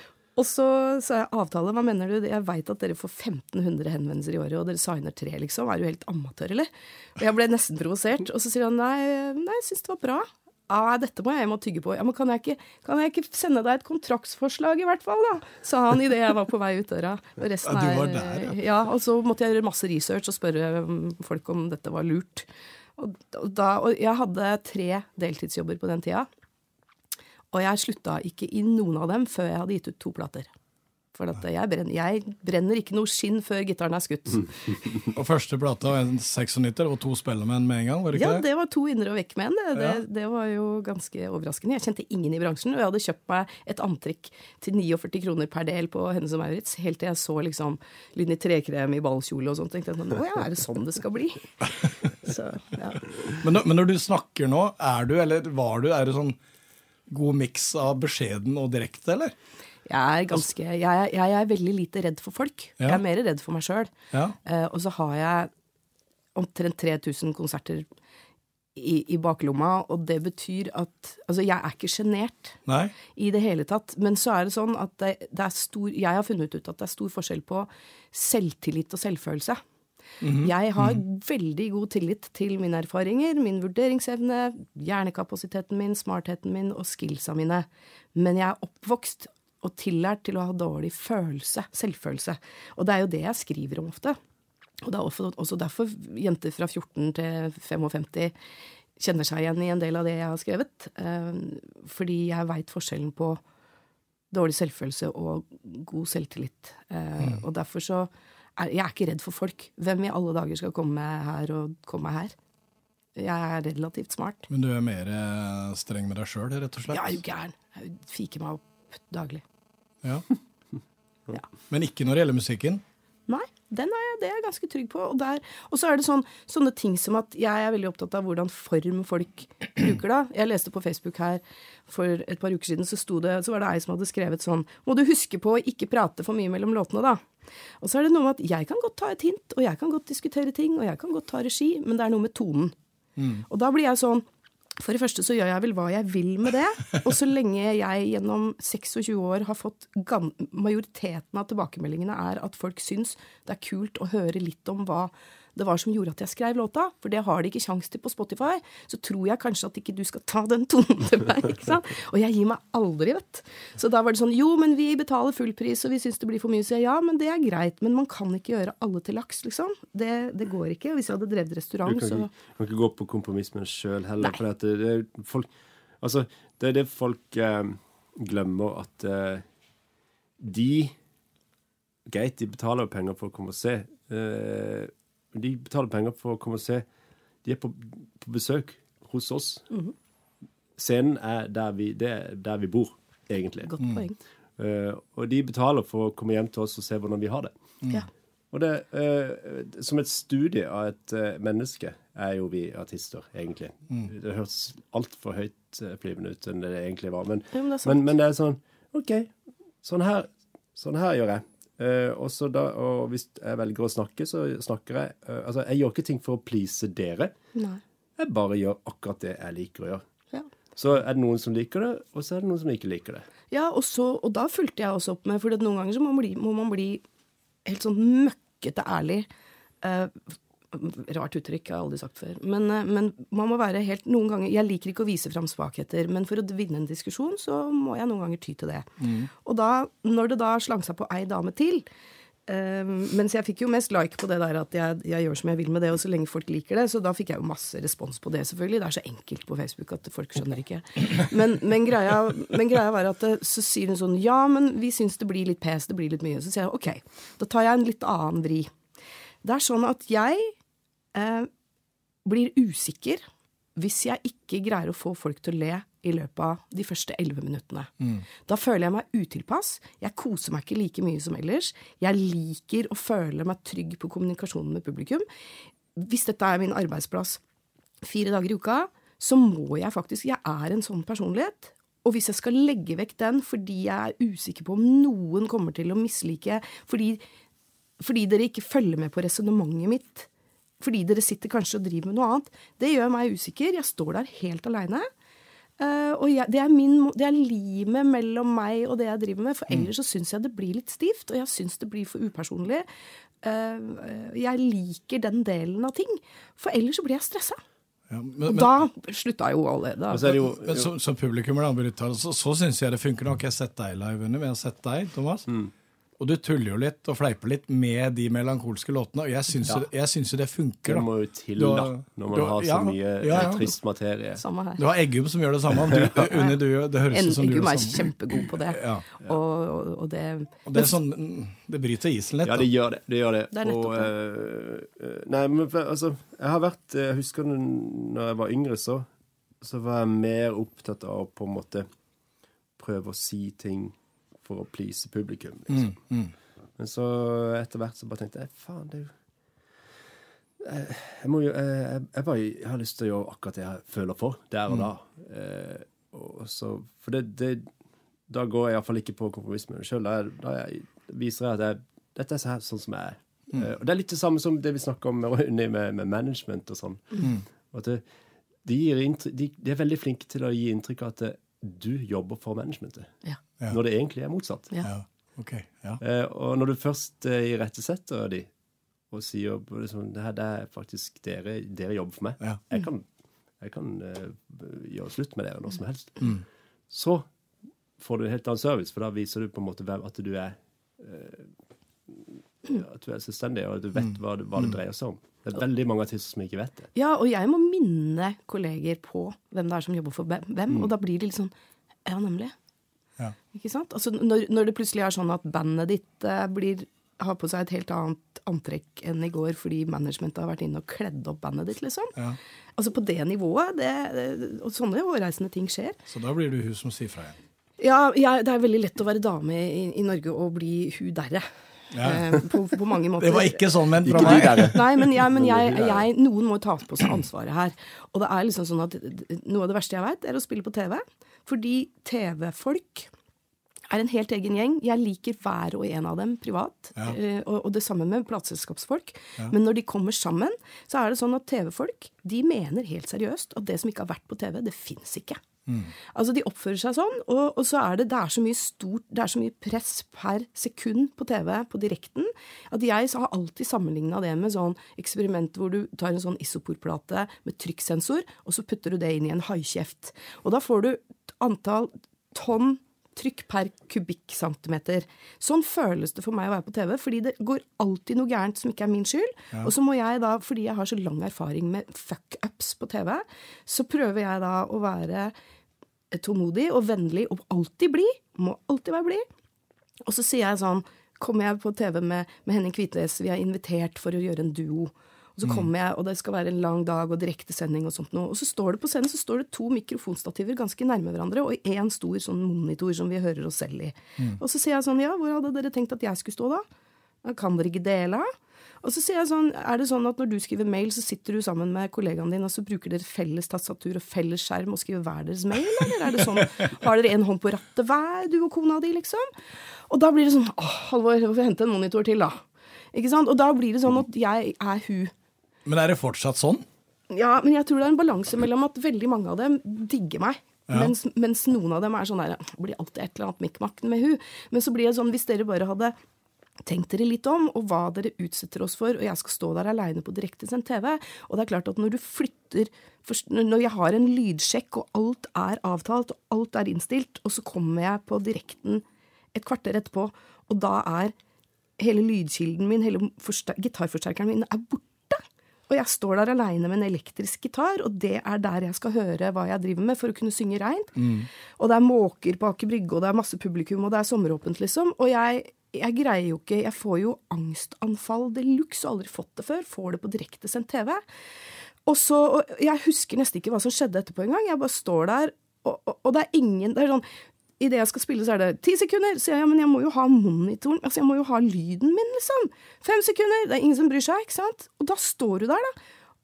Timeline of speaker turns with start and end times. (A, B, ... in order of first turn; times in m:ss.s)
0:00.4-0:26.3 A
0:17.7-0:18.6 B
0:27.5-0:30.5 A
0:31.2-0:34.9 A
0:35.1-0:38.4 B
0:38.1-0:51.5 A
0:39.8-0:40.0 B
0:52.2-0:53.3 A
0:53.4-0:56.4 B
0:57.1-0:59.4 B
0:59.9-1:03.9 A
1:04.4-1:05.5 A
1:06.4-1:07.9 A
1:08.8-1:19.6 A
1:12.7-1:13.0 B
1:20.2-1:21.0 B
1:20.4-1:34.2 A
1:34.8-1:38.3 A
1:39.0-1:43.4 A
1:44.3-1:52.4 A
1:53.2-1:54.5 A
1:54.5-1:57.2 B
1:56.9-1:59.4 A
2:01.7-2:02.8 B
2:03.3-2:17.2 A
2:17.8-2:22.7 A
2:23.2-2:23.4 B
2:23.5-2:24.2 A
2:24.8-2:52.3 A
2:51.9-2:59.5 C
3:00.4-3:01.0 C
3:02.1-3:06.8 C
3:07.4-3:09.7 C
3:10.8-3:13.7 C
3:13.7-3:14.2 A
3:14.6-3:17.6 C
3:18.5-3:37.4 C
3:27.5-3:28.1 A
3:37.6-3:37.8 A
3:38.2-3:40.0 C
3:40.8-3:43.3 C
3:43.5-3:47.0 A
3:47.7-3:49.3 A
3:49.8-4:01.8 A
3:59.0-3:59.3 B
4:02.5-4:18.7 A
4:19.4-4:20.6 A
4:21.1-4:21.5 A
4:22.2-4:23.2 A
4:23.8-4:27.9 A
4:28.4-4:35.3 A
4:36.0-4:37.4 A
4:38.0-4:47.2 A
4:48.0-4:50.3 A
4:50.8-4:55.1 A
4:55.8-5:02.9 A
5:03.4-5:07.6 A
5:08.1-5:08.8 B
5:08.4-5:10.4 A
5:10.1-5:10.9 C
5:10.5-5:15.5 B
5:16.2-5:23.7 B
5:20.8-5:24.4 C
5:24.4-5:24.8 A
5:24.8-5:29.0 B
5:25.9-5:26.2 C
5:27.1-5:31.0 A
5:30.7-5:32.7 B
5:32.4-5:39.1 C
5:33.5-5:34.1 A
5:39.6-5:41.9 C
5:42.8-5:46.0 C
5:45.7-5:46.3 B
5:46.8-5:49.2 C
5:50.6-5:57.7 C
5:58.3-6:08.0 C
6:08.6-6:13.1 C
6:13.7-6:14.7 C
6:14.8-6:16.0 B
6:16.0-6:18.5 C
6:19.1-6:23.1 C
6:23.6-6:27.3 C
6:28.0-6:31.5 C
6:32.1-6:36.9 C
6:37.0-6:41.5 A
6:42.1-6:42.5 A
6:43.5-6:52.2 A
6:52.8-6:56.0 A
6:56.1-6:57.4 B
6:57.8-7:13.1 A
7:01.9-7:02.4 B
7:03.2-7:04.9 B
7:04.0-7:06.1 C
7:13.9-7:25.4 A
7:25.7-7:25.9 B
7:26.1-7:55.3 A
7:56.1-7:59.2 A
8:00.0-8:16.6 A
8:17.2-8:18.3 A
8:18.8-8:29.3 A
8:29.9-8:35.1 A
8:35.6-8:36.6 B
8:37.1-8:46.0 A
8:40.7-8:40.9 B
8:46.6-9:01.2 A
9:01.8-9:11.0 A
9:11.0-9:11.3 B
9:11.6-9:21.0 A
9:21.9-9:27.0 A
9:27.6-9:35.7 A